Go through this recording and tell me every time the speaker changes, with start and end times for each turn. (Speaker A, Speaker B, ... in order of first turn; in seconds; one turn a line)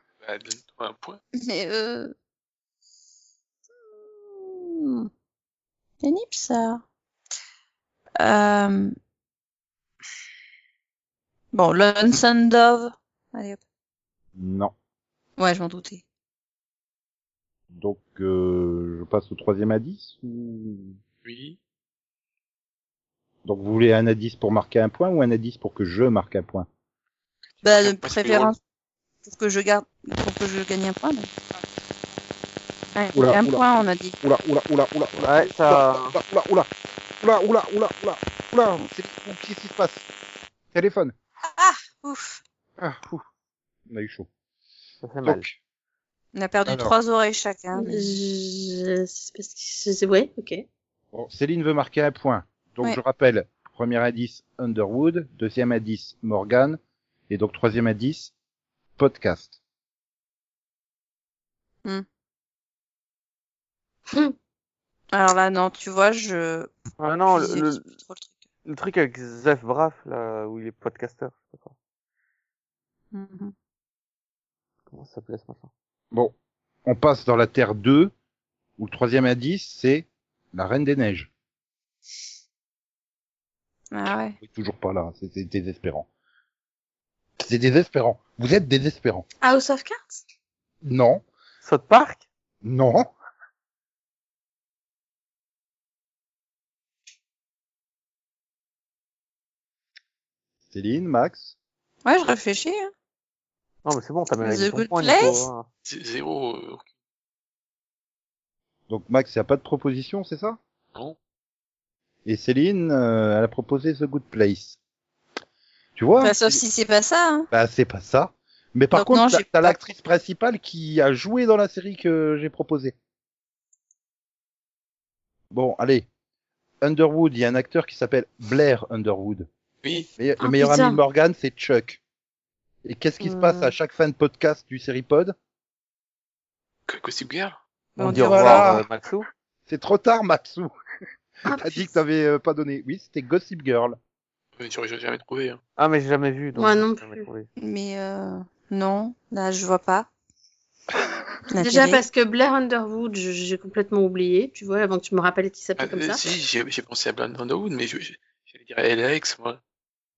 Speaker A: 0.2-1.2
Speaker B: 1.4-2.1
Speaker B: 4.2-5.1
Speaker B: 6.0-6.8
Speaker B: 8.2-8.9
Speaker B: 11.5-13.6
Speaker C: 14.4-14.7
Speaker B: 15.4-16.0
Speaker C: 17.7-21.0
Speaker A: 21.2-21.6
Speaker C: 23.4-26.7
Speaker A: 27.6-28.5
Speaker B: 27.6-28.6
Speaker B: 29.2-31.3
Speaker B: 33.0-34.2
Speaker C: 33.1-33.7
Speaker C: 34.2-36.7
Speaker D: 35.2-36.2
Speaker C: 37.2-40.1
Speaker C: 40.7-41.1
Speaker B: 41.5-42.4
Speaker C: 42.8-43.2
Speaker C: 43.9-44.3
Speaker D: 45.0-45.5
Speaker C: 45.2-45.6
Speaker B: 46.3-48.1
Speaker C: 46.7-47.0
Speaker E: 47.8-50.6
Speaker C: 51.1-58.3
Speaker C: 59.0-59.5
Speaker B: 65.1-66.8
Speaker D: 67.0-67.8
Speaker B: 67.3-68.4
Speaker D: 68.7-71.7
Speaker B: 73.1-73.5
Speaker D: 74.9-75.7
Speaker C: 76.8-78.1
Speaker C: 78.8-81.3
Speaker B: 83.9-84.4
Speaker C: 84.4-86.1
Speaker C: 87.4-89.3
Speaker E: 89.4-90.2
Speaker C: 90.8-91.2
Speaker D: 91.6-92.2
Speaker C: 92.6-93.1
Speaker C: 100.7-101.5
Speaker B: 102.0-102.9
Speaker D: 103.8-105.7
Speaker B: 104.4-105.5
Speaker A: 105.8-106.8
Speaker C: 108.9-110.6
Speaker C: 112.2-114.8
Speaker C: 116.0-116.6
Speaker B: 116.2-117.5
Speaker C: 117.5-123.0
Speaker B: 118.9-119.8
Speaker C: 125.5-126.1
Speaker C: 126.8-129.5
Speaker A: 129.8-130.1
Speaker C: 130.2-132.0
Speaker E: 130.4-131.0
Speaker C: 132.8-135.3
Speaker E: 133.2-133.7
Speaker A: 136.9-137.6
Speaker B: 138.0-138.8
Speaker D: 138.0-139.3
Speaker C: 138.1-138.9
Speaker C: 139.7-140.7
Speaker C: 141.5-144.0
Speaker E: 141.5-141.9
Speaker A: 144.6-145.6
Speaker D: 145.8-147.5
Speaker E: 146.6-147.2
Speaker B: 147.6-150.1
Speaker B: 151.5-152.0
Speaker E: 151.6-156.3
Speaker A: 155.8-159.6